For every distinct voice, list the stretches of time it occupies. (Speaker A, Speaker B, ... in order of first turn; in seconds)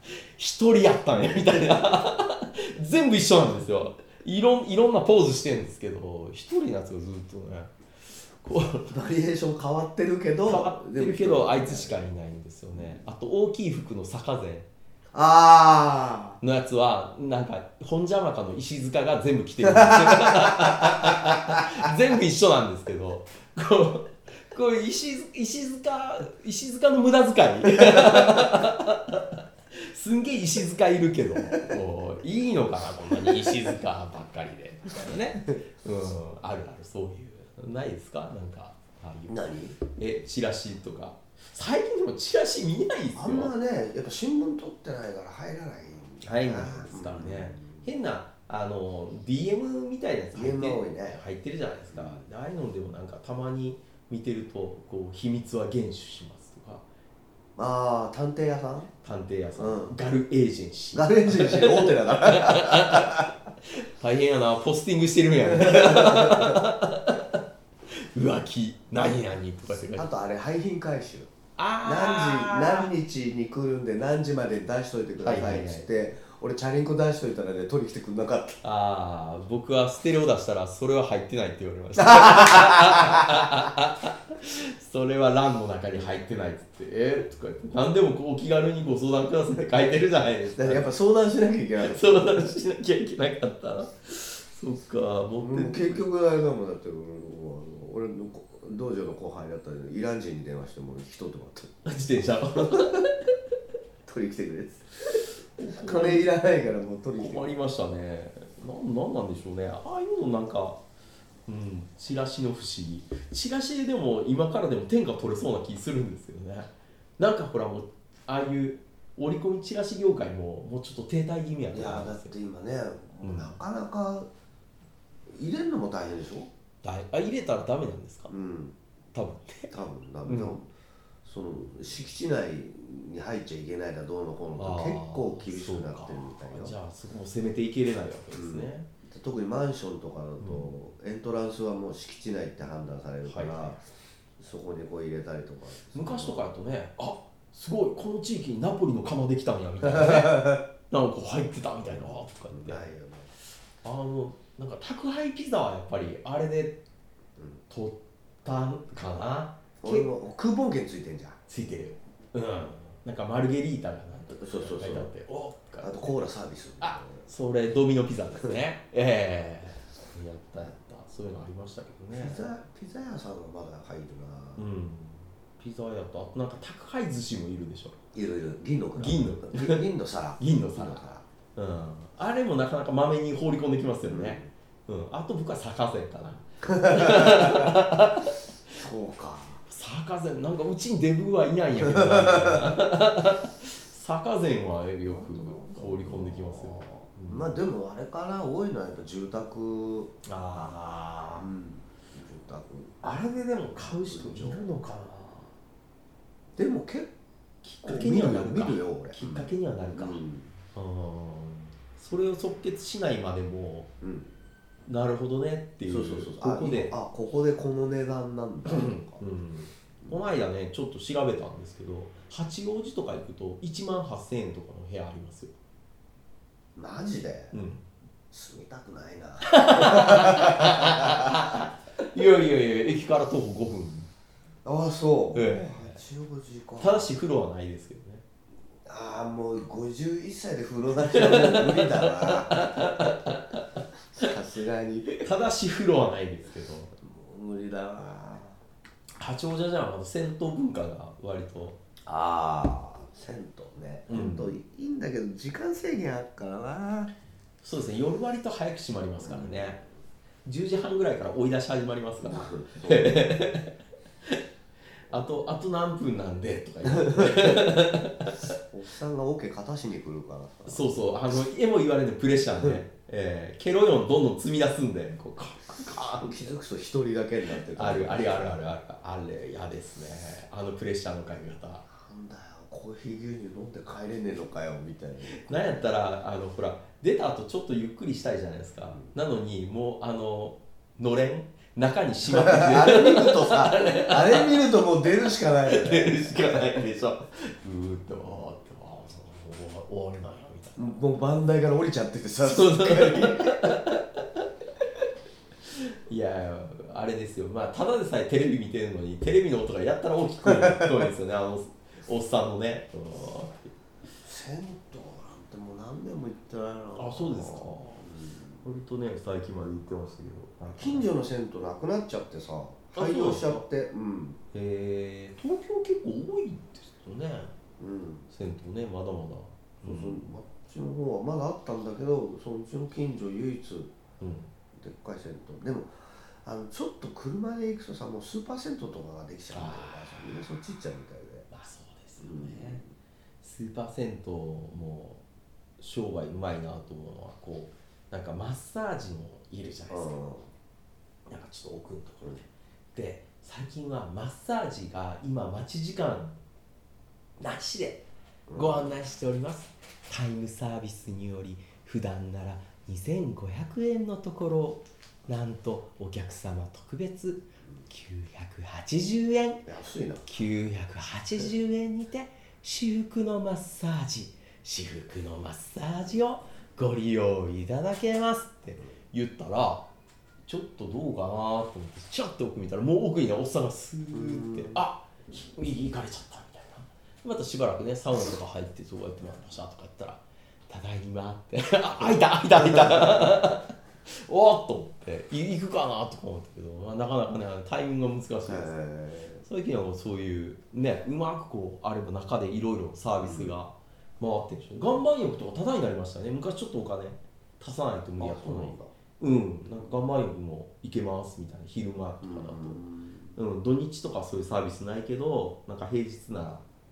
Speaker A: 0.4-7.7, 8.4-9.0, 10.4-14.7, 16.4-43.5, 46.2-56.9, 59.0-70.1, 71.6-72.9, 75.2-75.9, 78.6-90.9, 91.8-96.0, 101.8-103.3, 105.1-106.4, 107.2-110.8, 111.5-122.3, 123.2-123.6, 126.8-128.3, 129.1-129.7, 130.3-130.6, 134.6-138.9, 140.4-140.7, 143.2-143.8, 145.9-152.8, 153.8-156.8, 157.7-160.1, 161.5-166.1, 166.8-172.5, 174.6-178.0, 178.9-179.9, 180.4-188.4, 189.7-197.6, 200.2-201.5, 203.0-205.6, 207.6-213.9, 214.9-216.9, 218.7-225.5, 227.5-227.8, 229.4-234.1, 235.3-236.0, 236.8-238.2, 241.1-244.3, 245.2-246.9, 249.2-251.8, 254.1-254.6, 257.6-259.8, 260.4-264.4, 265.1-268.5, 270.6-276.5, 277.7-281.9, 285.3-300.9, 302.4-304.9, 305.7-313.7, 316.9-318.1, 318.6-321.1, 322.9-323.6, 324.5-327.5, 328.3-330.3, 334.2-334.5, 339.5-340.3, 341.5-342.8, 343.4-345.2, 345.8-350.1, 351.3-356.4, 357.4-369.6, 370.2-379.9, 380.4-398.7, 399.4-412.8, 413.4-416.6
Speaker B: 8.9-11.9, 15.1-16.4, 19.6-21.7, 31.5-31.8, 33.1-33.5, 39.3-39.8, 43.1-47.9, 50.3-51.2, 51.9-52.2, 57.6-58.9, 59.6-60.0, 60.9-63.3, 65.4-66.6, 69.0-71.3, 71.8-78.6, 82.0-83.4, 90.6-92.5, 95.4-101.8, 104.0-107.5, 121.7-124.3, 125.3-126.5, 128.3-128.8, 129.7-130.7, 131.2-136.7, 138.3-143.9, 144.4-146.4, 149.8-150.6, 151.9-153.3, 159.8-161.4, 164.4-165.1, 165.8-167.2, 172.2-174.6, 178.1-181.3, 184.1-184.5, 186.7-187.7, 188.7-189.6, 191.8-192.8, 195.1-200.6, 201.4-203.2, 203.7-204.8, 206.6-207.1, 207.8-210.5, 214.0-214.3, 215.9-219.2, 226.8-227.6, 228.3-231.7, 234.7-237.1, 238.9-242.9, 244.1-245.3, 247.0-248.6, 252.1-257.1, 259.2-259.7, 262.2-263.3, 266.9-267.8, 268.6-270.9, 275.8-278.6, 281.9-285.8, 292.3-296.6, 300.8-303.7, 310.4-311.1, 314.2-318.6, 320.7-324.4, 327.8-328.3, 329.8-333.9, 334.7-341.5, 342.2-342.9, 349.9-350.5, 358.5-358.9, 369.6-370.3, 384.1-384.8, 392.6-393.3, 398.5-399.4, 403.2-403.5, 408.2-408.9, 412.2-413.3